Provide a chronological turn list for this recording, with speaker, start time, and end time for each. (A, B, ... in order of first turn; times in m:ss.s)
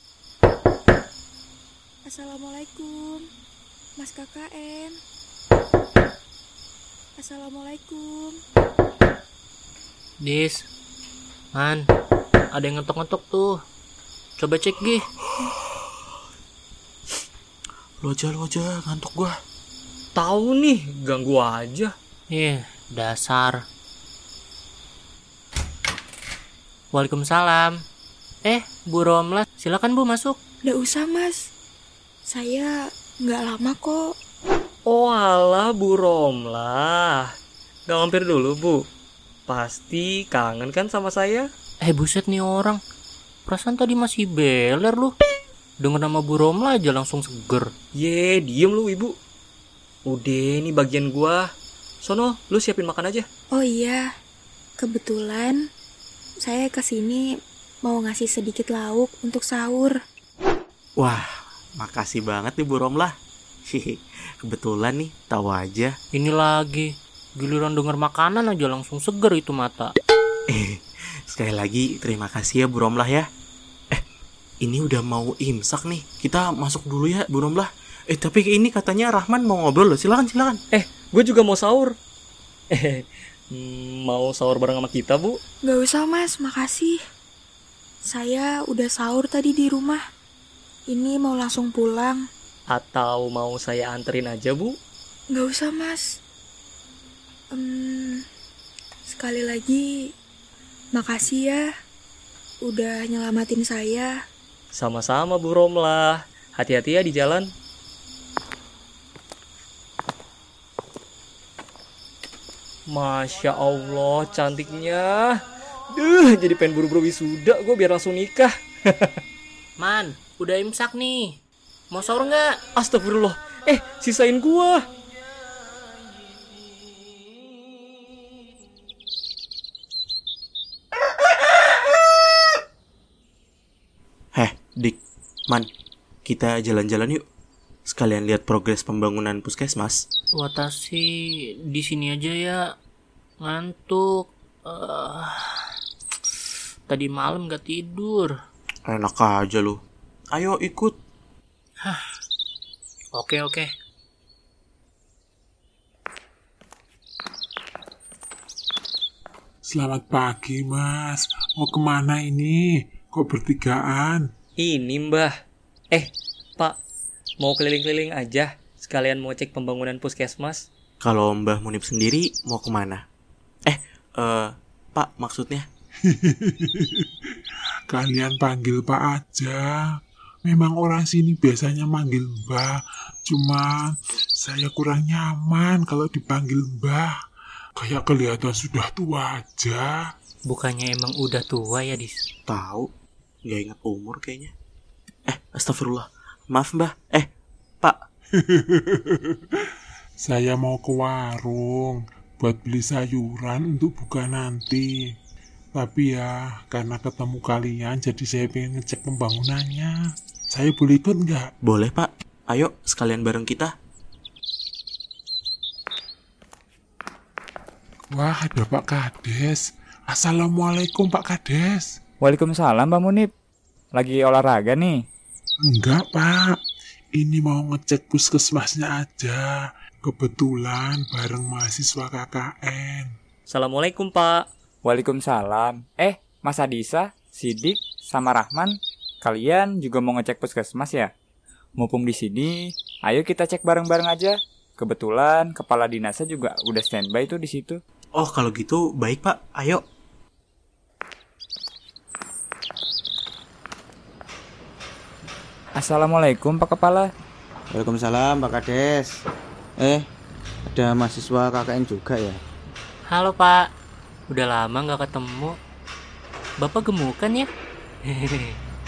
0:02.0-0:03.2 A
0:04.0-0:05.0 A
0:07.2-0:08.3 A
0:10.2-0:10.6 B
0:11.5-0:11.8 B
0:12.5-0:13.5 B
0:14.4-0:15.0 B
0:15.4-0:16.0 C
0:18.0-0:19.3 C
0:20.2-0:21.9 D
0:22.3-0:23.6 B
0:26.9-0:27.7 B
0:28.4-0:30.4 B
0:30.6-0:31.4 A
0:32.3-0:34.1 A
0:34.9-0:37.3 D
0:37.9-0:38.8 D
0:39.5-0:41.4 D
0:41.8-0:42.8 B
0:43.5-0:45.1 B
0:45.8-0:47.7 B
0:48.0-0:49.1 D
0:50.1-0:51.4 D
0:52.0-0:53.2 D
0:53.5-0:54.0 A
0:54.8-0:55.6 A
0:56.4-0:57.2 A
0:57.8-1:00.0 A
1:01.0-1:01.2 C
1:01.8-1:03.1 C
1:03.7-1:05.9 C
1:06.1-1:09.9 B
1:10.5-1:13.2 C
1:14.6-1:20.6 C
1:20.7-1:21.9 D
1:22.7-1:25.4 D
1:25.6-1:27.0 A
1:28.1-1:30.0 A
1:30.9-1:32.2 A
1:32.7-1:34.8 D
1:35.3-1:36.0 A
1:37.5-1:38.2 A
1:39.1-1:39.9 A
1:40.9-1:41.6 A
1:42.6-1:44.1 A
1:44.7-1:47.5 D
1:52.9-1:55.4 D
1:55.9-1:59.1 D
1:59.8-2:01.4 B
2:01.9-2:02.5 B
2:02.8-2:04.8 D
2:14.3-2:15.0 C
2:16.2-2:17.2 C
2:17.9-2:20.0 C
2:20.4-2:21.0 B
2:21.7-2:22.6 B
2:23.4-2:25.4 B
2:26.9-2:28.3 B
2:28.9-2:29.8 C
2:30.3-2:30.9 C
2:33.1-2:33.6 B
2:39.6-2:44.2 E
2:44.6-2:45.3 D
2:47.4-2:50.6 D
2:51.0-2:53.0 C
2:53.7-2:55.7 C
2:56.1-2:57.1 E
2:57.9-2:59.7 E
3:00.4-3:07.1 E
3:07.8-3:10.0 E
3:10.5-3:12.2 B
3:12.5-3:12.9 C
3:13.4-3:14.5 C
3:15.3-3:17.3 C
3:18.4-3:19.4 E
3:20.2-3:24.9 E
3:25.7-3:29.9 E
3:30.5-3:31.5 E
3:31.6-3:33.7 C
3:38.1-3:42.0 E
3:42.2-3:43.3 F
3:43.9-3:45.0 F
3:45.6-3:46.6 E
3:47.1-3:53.1 E
3:53.5-3:54.4 D
3:54.8-4:01.1 F
4:01.8-4:07.8 F
4:08.2-4:09.8 C
4:15.8-4:17.1 F
4:17.7-4:19.1 G
4:19.8-4:20.0 G
4:20.7-4:22.4 G
4:23.1-4:23.6 B
4:24.3-4:25.6 B
4:26.6-4:27.5 B
4:28.2-4:28.5 B